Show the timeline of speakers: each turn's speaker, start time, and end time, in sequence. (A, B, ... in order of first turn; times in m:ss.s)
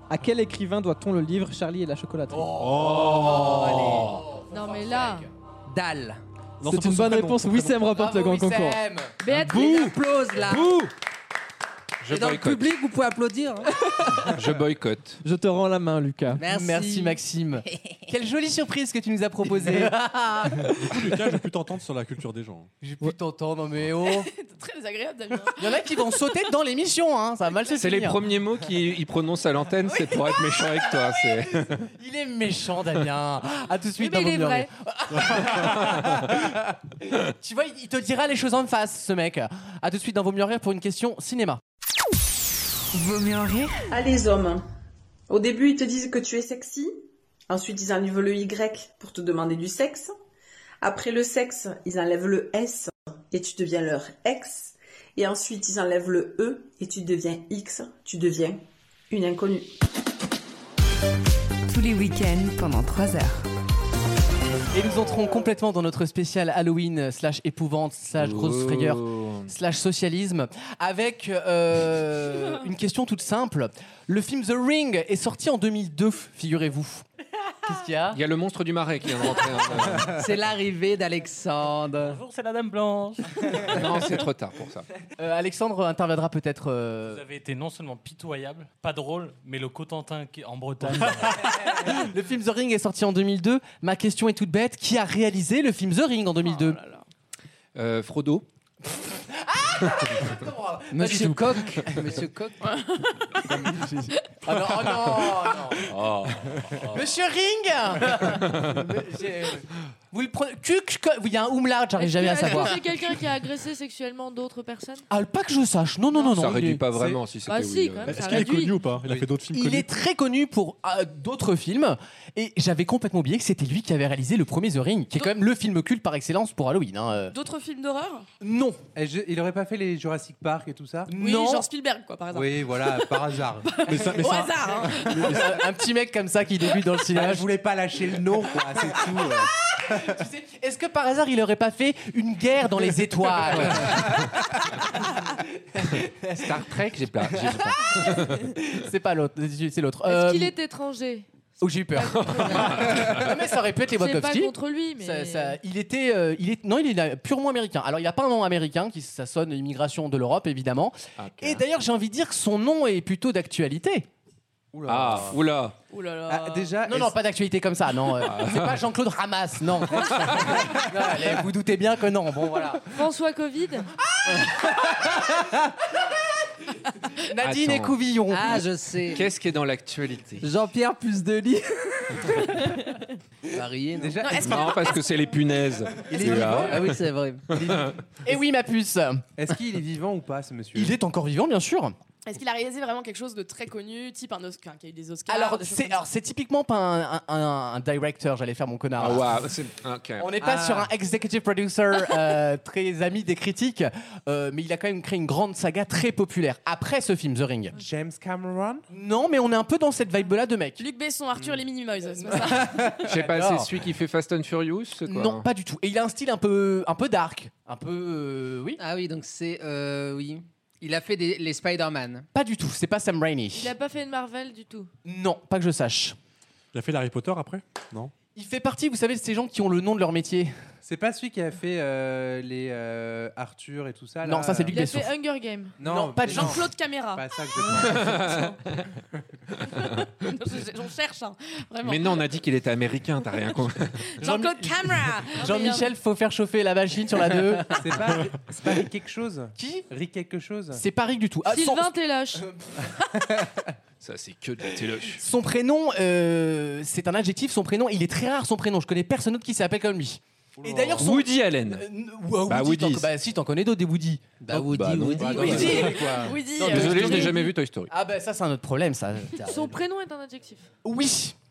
0:00.1-0:02.5 A
0:02.3-0:05.3 B
0:02.6-0:04.1 C
0:02.7-0:04.2 D
0:04.5-0:05.3 E
0:05.7-0:06.2 F
0:06.6-0:07.9 C
0:06.6-0:08.8 A
0:07.9-0:09.2 B
0:09.2-0:10.0 E
0:09.4-0:10.9 F
0:12.0-0:12.8 D
0:12.1-0:13.7 F
0:14.3-0:15.2 D
0:15.2-0:16.4 A
0:16.3-0:18.0 F
0:16.4-0:20.7 B
0:19.6-0:20.6 F
0:20.7-0:22.7 C
0:22.8-0:24.3 B
0:24.0-0:26.2 G
0:25.6-0:28.2 B
0:27.8-0:31.8 D
0:31.8-0:36.5 B
0:34.0-0:34.7 E
0:35.2-0:35.6 C
0:37.2-0:41.6 B
0:42.9-0:43.8 H
0:43.9-0:44.6 I
0:45.3-0:46.9 I
0:47.5-0:50.1 I
0:50.8-0:59.7 I
1:01.7-1:03.5 H
1:04.7-1:17.0 B
1:08.1-1:09.5 D
1:17.6-1:18.2 B
1:18.1-1:20.2 D
1:20.0-1:22.2 F
1:22.0-1:23.8 J
1:23.7-1:24.8 D
1:25.2-1:27.2 B
1:27.1-1:31.4 J
1:31.6-1:36.8 B
1:36.4-1:37.0 G
1:37.7-1:38.4 D
1:38.8-1:42.0 B
1:40.9-1:42.7 F
1:42.6-1:43.6 G
1:44.4-1:45.9 B
1:45.8-1:47.0 D
1:46.9-1:53.0 B
1:48.3-1:48.8 D
1:52.0-1:55.0 E
1:55.1-1:56.8 B
1:56.2-1:58.5 D
1:56.9-1:57.2 K
1:57.5-1:58.9 E
1:58.0-1:59.9 C
1:58.9-1:59.3 K
1:59.5-2:07.3 B
2:07.3-2:08.3 G
2:08.4-2:08.8 B
2:08.9-2:11.1 K
2:11.1-2:11.7 B
2:11.1-2:15.3 G
2:12.3-2:13.8 K
2:13.9-2:15.6 C
2:14.2-2:14.5 B
2:15.1-2:17.5 B
2:17.1-2:20.2 K
2:19.9-2:30.5 B
2:26.4-2:28.3 D
2:30.0-2:31.2 E
2:31.6-2:44.1 B
2:31.9-2:33.2 E
2:32.1-2:33.4 D
2:33.9-2:35.6 E
2:41.2-2:41.6 D
2:44.7-2:45.4 K
2:44.8-2:45.7 D
2:45.9-2:46.8 G
2:46.3-2:47.1 K
2:46.8-2:52.9 B
2:48.2-2:48.8 D
2:49.9-2:50.5 D
2:52.9-2:53.9 E
2:55.0-2:55.3 B
2:57.2-2:58.7 B
2:57.4-2:58.0 D
2:58.3-2:59.3 F
2:59.1-3:00.5 D
3:00.4-3:02.5 F
3:03.5-3:04.3 F
3:04.0-3:04.7 K
3:04.2-3:05.3 G
3:04.4-3:07.0 D
3:06.0-3:07.0 K
3:06.2-3:07.5 F
3:06.2-3:06.9 B
3:07.5-3:08.0 K
3:08.2-3:09.3 B
3:09.4-3:11.0 K
3:10.7-3:12.0 B
3:12.2-3:16.1 G
3:15.3-3:19.3 B
3:19.0-3:20.3 D
3:20.2-3:27.8 B
3:20.4-3:20.9 K
3:27.7-3:28.8 K
3:28.9-3:30.8 B
3:30.8-3:33.1 G
3:32.1-3:33.7 B
3:33.0-3:35.4 D
3:35.0-3:38.8 B
3:38.8-3:42.3 F
3:42.3-3:43.7 B
3:43.5-3:44.9 E
3:45.0-3:46.2 B
3:46.7-3:48.1 C
3:48.3-3:50.5 B
3:50.8-3:54.8 K
3:54.2-3:55.1 B
3:54.7-3:55.8 E
3:55.8-3:58.4 K
3:55.8-3:56.6 B
3:56.2-3:58.4 G
3:57.9-3:58.3 D
4:00.2-4:02.3 G
4:01.8-4:04.2 D
4:04.1-4:05.9 G
4:04.2-4:07.8 B
4:07.8-4:10.8 K
4:09.6-4:09.9 B
4:10.7-4:12.8 B
4:11.4-4:12.4 E
4:14.0-4:15.2 D
4:15.2-4:29.8 B
4:20.6-4:21.0 K
4:21.0-4:21.8 D
4:22.5-4:23.1 D
4:24.4-4:26.0 F
4:24.7-4:25.9 D
4:25.2-4:26.4 K
4:25.4-4:27.5 G
4:26.6-4:27.9 D
4:29.4-4:30.7 E
4:30.8-4:31.3 B